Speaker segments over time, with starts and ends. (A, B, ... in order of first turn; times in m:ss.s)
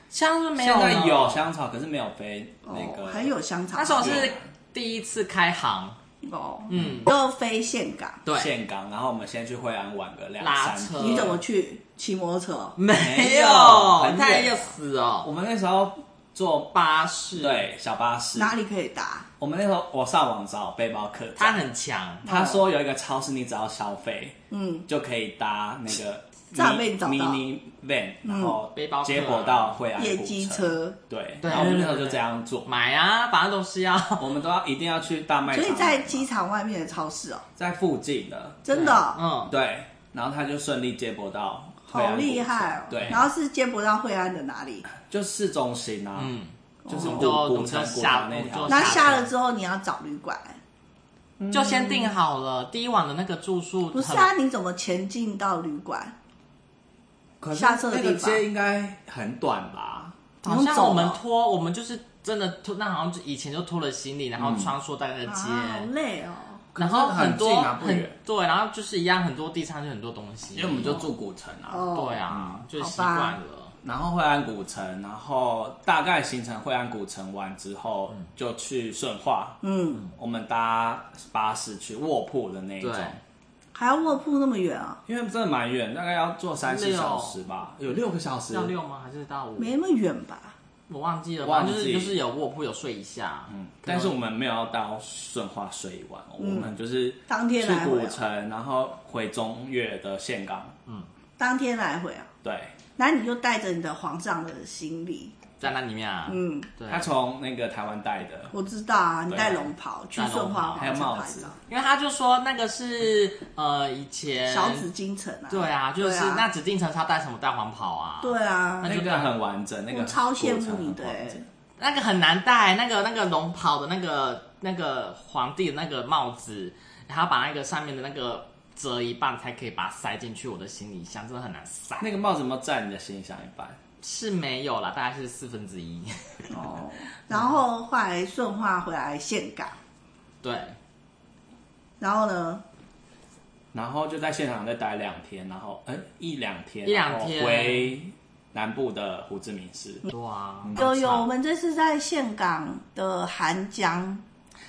0:00.1-0:01.5 A
0:00.6-0:03.3 B
0:02.7-0:04.3 C
0:03.8-0:06.0 A
0:04.0-0:04.4 B
0:06.2-0:08.2 C
0:06.7-0:07.1 A
0:08.2-0:08.5 A
0:08.3-0:11.4 B
0:10.4-0:11.4 A
0:11.0-0:12.8 C
0:12.8-0:15.3 A
0:13.0-0:16.7 B
0:16.7-0:17.7 A
0:17.4-0:18.6 B
0:18.4-0:19.3 C
0:19.4-0:21.7 B
0:21.4-0:22.3 A
0:22.2-0:24.4 B
0:22.2-0:22.6 C
0:24.5-0:24.9 C
0:24.9-0:32.7 B
0:26.5-0:27.4 C
0:28.2-0:28.6 C
0:28.7-0:29.8 A
0:30.0-0:31.0 C
0:31.4-0:34.3 A
0:34.2-0:36.3 B
0:35.5-0:37.5 C
0:37.6-0:38.7 B
0:38.6-0:39.2 C
0:38.7-0:39.5 A
0:39.5-0:43.3 B
0:41.9-0:44.9 C
0:43.0-0:43.2 A
0:45.0-0:46.3 B
0:46.2-0:49.3 A
0:46.8-0:47.3 C
0:46.9-0:49.2 B
0:48.7-0:50.6 C
0:51.4-0:52.1 B
0:51.5-0:54.3 A
0:53.9-0:56.1 C
0:57.4-1:00.2 B
0:57.5-0:58.4 C
1:00.4-1:05.9 A
1:00.4-1:01.2 C
1:04.4-1:04.7 B
1:05.3-1:06.7 C
1:06.8-1:08.2 B
1:06.8-1:11.1 A
1:10.5-1:12.6 B
1:11.7-1:12.2 C
1:11.9-1:13.8 A
1:12.8-1:13.4 C
1:13.8-1:19.6 B
1:19.6-1:20.1 C
1:20.1-1:23.2 B
1:22.8-1:23.2 A
1:23.8-1:25.0 C
1:25.1-1:28.7 B
1:26.6-1:27.4 A
1:28.5-1:29.7 A
1:29.6-1:30.6 C
1:30.9-1:34.1 A
1:31.4-1:32.2 B
1:33.5-1:40.8 B
1:36.4-1:36.7 C
1:37.3-1:38.2 C
1:41.4-1:42.3 C
1:42.4-1:42.8 B
1:43.0-1:45.4 C
1:45.6-1:47.1 A
1:46.3-1:46.7 C
1:46.9-1:48.5 B
1:48.5-1:51.6 C
1:49.3-1:49.7 B
1:50.2-1:50.9 A
1:50.8-1:51.5 B
1:51.7-1:54.9 A
1:54.5-1:56.5 C
1:55.5-1:59.3 A
1:58.2-1:59.0 C
1:58.8-2:01.5 B
1:59.9-2:01.4 C
2:01.8-2:12.1 A
2:12.0-2:13.8 B
2:14.0-2:16.5 A
2:16.5-2:19.8 C
2:17.3-2:17.6 A
2:20.4-2:20.8 A
2:22.0-2:22.6 C
2:23.7-2:30.1 B
2:26.8-2:28.0 A
2:30.1-2:31.3 A
2:30.8-2:34.2 C